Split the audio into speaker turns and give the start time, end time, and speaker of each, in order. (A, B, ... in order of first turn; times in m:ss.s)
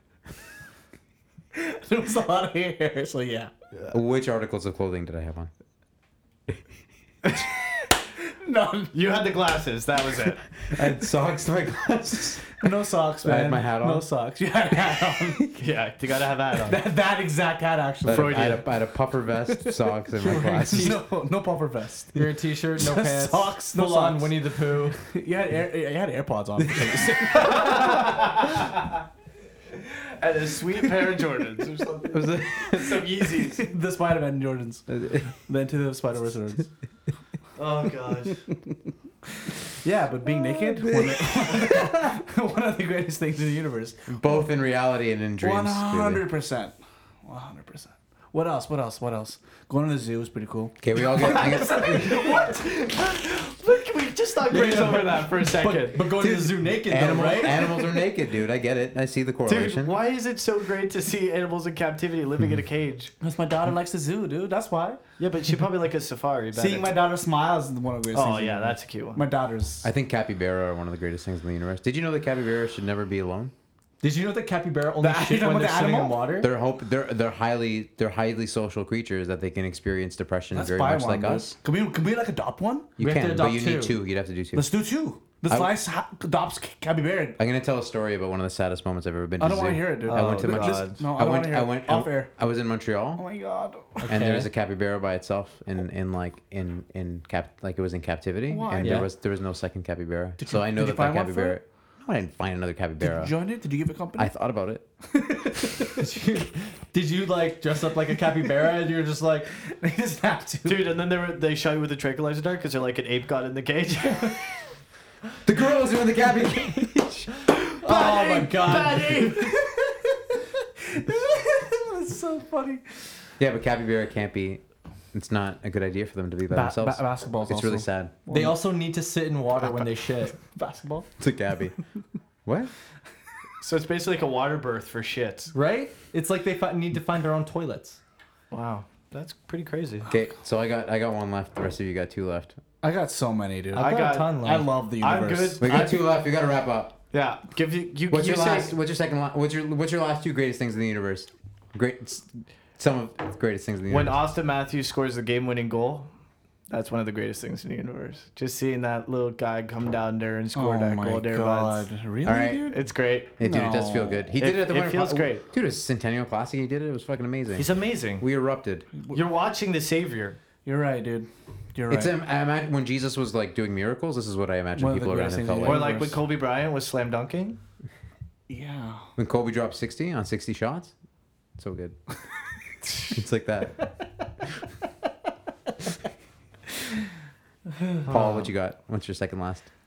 0:01.5-0:03.5 A
0:03.9-0:05.5 B
0:08.2-0:08.9 A
0:08.9-0:10.4 C
0:10.7-0:12.6 B
0:12.6-0:15.5 A
0:13.2-0:14.0 B
0:15.6-0:16.8 C
0:16.6-0:18.6 A
0:18.0-0:21.0 B
0:18.1-0:18.7 C
0:19.5-0:24.4 A
0:20.3-0:21.0 D
0:22.1-0:25.0 D
0:25.0-0:28.2 A
0:26.8-0:27.5 B
0:27.4-0:28.6 C
0:30.0-0:33.7 C
0:32.1-0:33.0 B
0:33.4-0:36.7 A
0:34.9-0:35.3 B
0:37.6-0:38.4 C
0:39.8-0:44.1 A
0:40.7-0:41.7 B
0:44.1-0:46.2 B
0:45.4-0:54.8 A
0:50.8-0:52.4 B
0:51.4-0:56.1 C
0:54.5-0:57.9 D
0:56.1-0:59.9 B
0:59.4-1:03.1 C
1:03.2-1:05.0 A
1:05.2-1:06.9 C
1:06.5-1:09.9 A
1:08.1-1:09.2 C
1:09.8-1:13.5 B
1:14.0-1:16.5 D
1:15.0-1:16.2 A
1:16.4-1:21.6 B
1:20.5-1:22.9 A
1:23.0-1:24.6 B
1:23.0-1:24.0 D
1:24.5-1:27.4 A
1:27.4-1:33.2 B
1:29.4-1:32.3 A
1:30.0-1:31.0 C
1:33.2-1:34.1 A
1:34.0-1:34.5 D
1:34.0-1:43.3 B
1:38.5-1:39.0 A
1:38.8-1:39.1 D
1:40.4-1:41.6 A
1:43.0-1:44.3 A
1:44.2-1:44.8 B
1:45.2-1:45.6 A
1:46.0-1:49.6 D
1:49.7-1:50.9 A
1:50.6-1:54.5 C
1:55.4-1:57.3 B
1:57.8-1:59.5 C
1:57.8-1:59.2 D
1:57.9-2:02.8 A
2:03.4-2:08.1 B
2:06.5-2:08.6 A
2:08.3-2:10.4 D
2:10.5-2:11.1 A
2:11.2-2:11.8 B
2:12.4-2:12.7 B
2:13.6-2:15.5 C
2:15.5-2:18.0 D
2:18.5-2:20.1 C
2:20.1-2:22.6 B
2:22.8-2:25.9 A
2:23.7-2:24.5 C
2:23.7-2:24.7 D
2:25.0-2:26.1 C
2:25.6-2:27.0 B
2:27.1-2:28.7 C
2:28.1-2:34.2 B
2:33.9-2:36.1 C
2:36.7-2:41.9 C
2:40.5-2:42.8 A
2:42.2-2:42.6 B
2:42.6-2:43.4 C
2:43.4-2:48.9 B
2:43.4-2:44.3 A
2:44.4-2:45.4 C
2:47.5-2:48.2 C
2:49.1-2:50.4 C
2:50.6-2:52.1 A
2:51.9-2:55.8 B
2:54.7-2:56.2 A
2:55.6-2:57.6 C
2:58.5-2:59.1 A
2:59.2-3:00.9 B
3:01.6-3:02.0 B
3:03.0-3:03.9 B
3:08.0-3:08.5 C
3:08.0-3:09.6 B